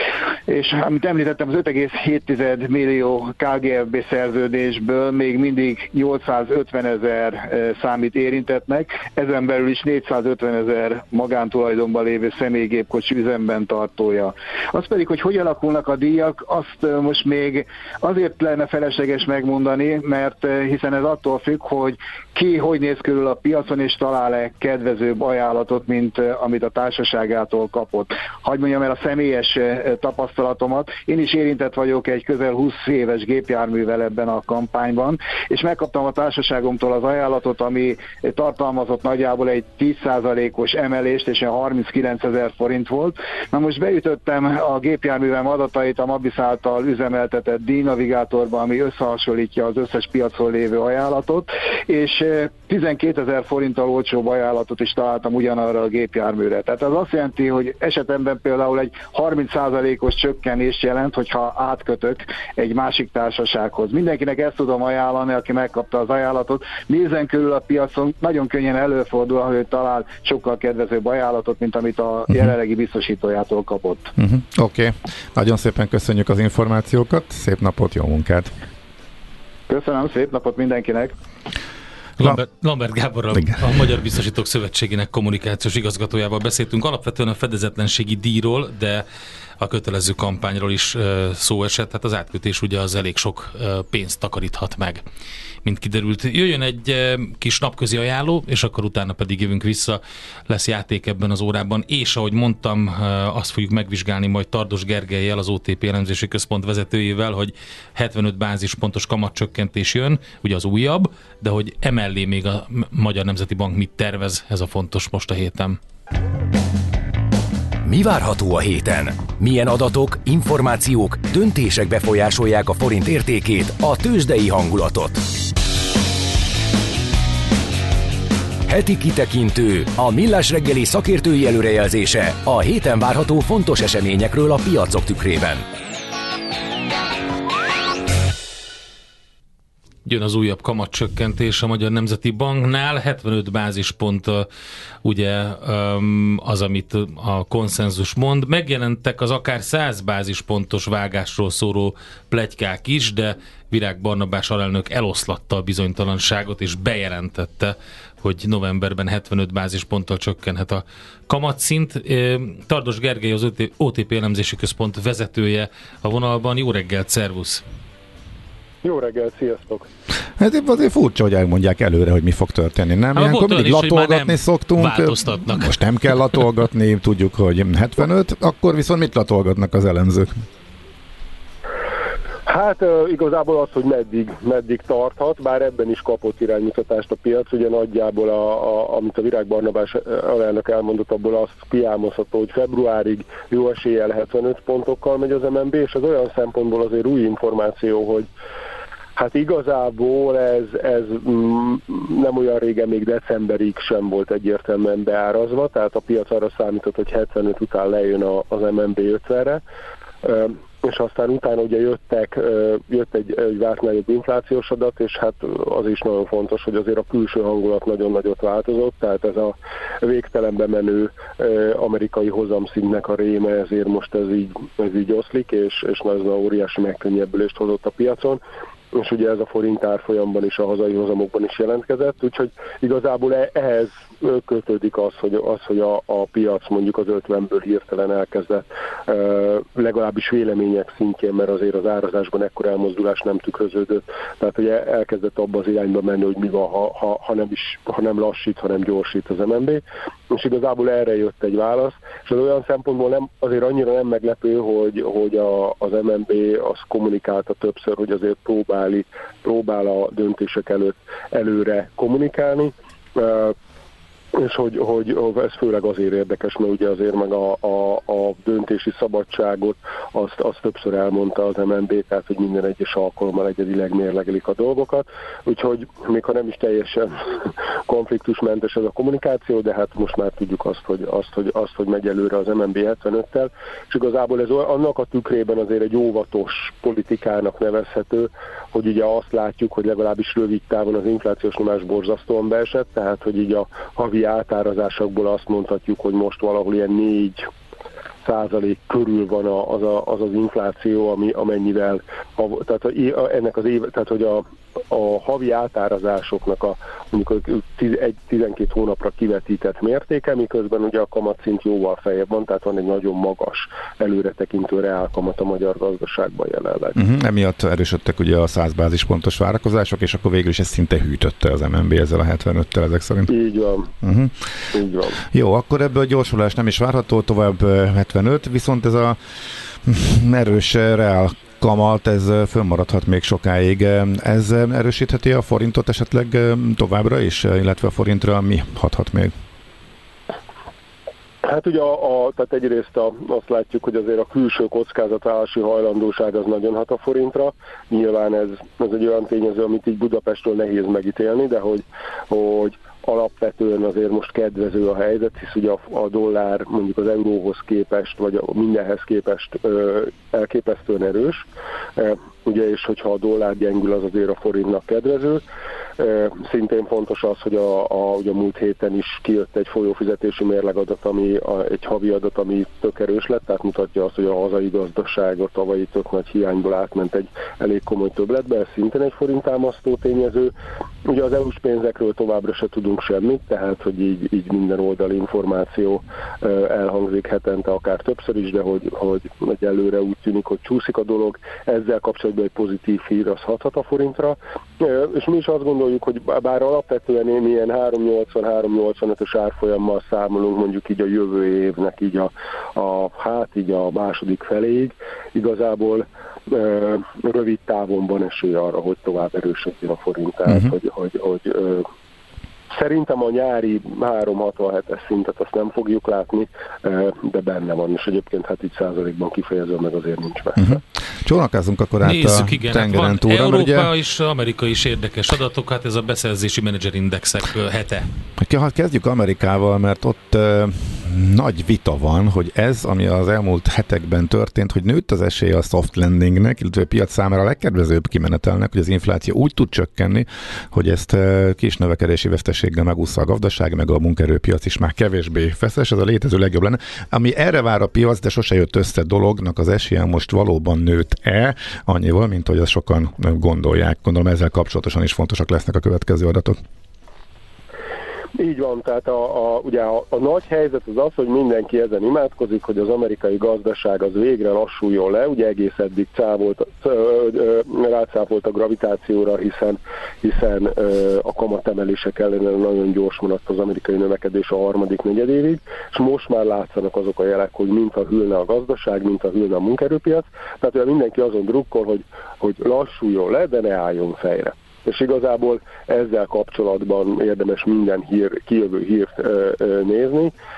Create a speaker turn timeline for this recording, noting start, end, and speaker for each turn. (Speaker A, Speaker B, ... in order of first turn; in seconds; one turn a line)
Speaker A: 0.5-74.1
Speaker B: 74.2-78.5
Speaker A: 79.7-81.2
Speaker C: 82.2-89.0
Speaker C: 89.6-95.0
Speaker C: 95.6-115.8
Speaker D: 117.8-125.2
Speaker D: 128.7-135.7
Speaker C: 140.1-144.5
Speaker C: 145.0-167.6
Speaker E: 168.8-169.9
Speaker B: 170.4-180.4
Speaker C: 173.2-175.8
Speaker E: 182.5-198.3
Speaker E: 199.2-209.6
Speaker E: 210.2-228.4
Speaker E: 228.9-263.6
Speaker E: 264.4-297.5
Speaker E: 298.2-317.0
Speaker B: 316.9-323.3
Speaker E: 323.3-323.9
Speaker B: 324.0-324.6
Speaker E: 324.7-325.2
Speaker B: 325.2-329.2
Speaker B: 329.8-339.3
Speaker E: 341.4-361.5
Speaker E: 362.0-365.4
Speaker E: 366.0-380.5
Speaker E: 381.1-411.9
Speaker E: 412.7-420.8
Speaker B: 420.6-423.9
Speaker C: 422.0-428.1
Speaker B: 428.4-456.6
Speaker E: 458.4-490.3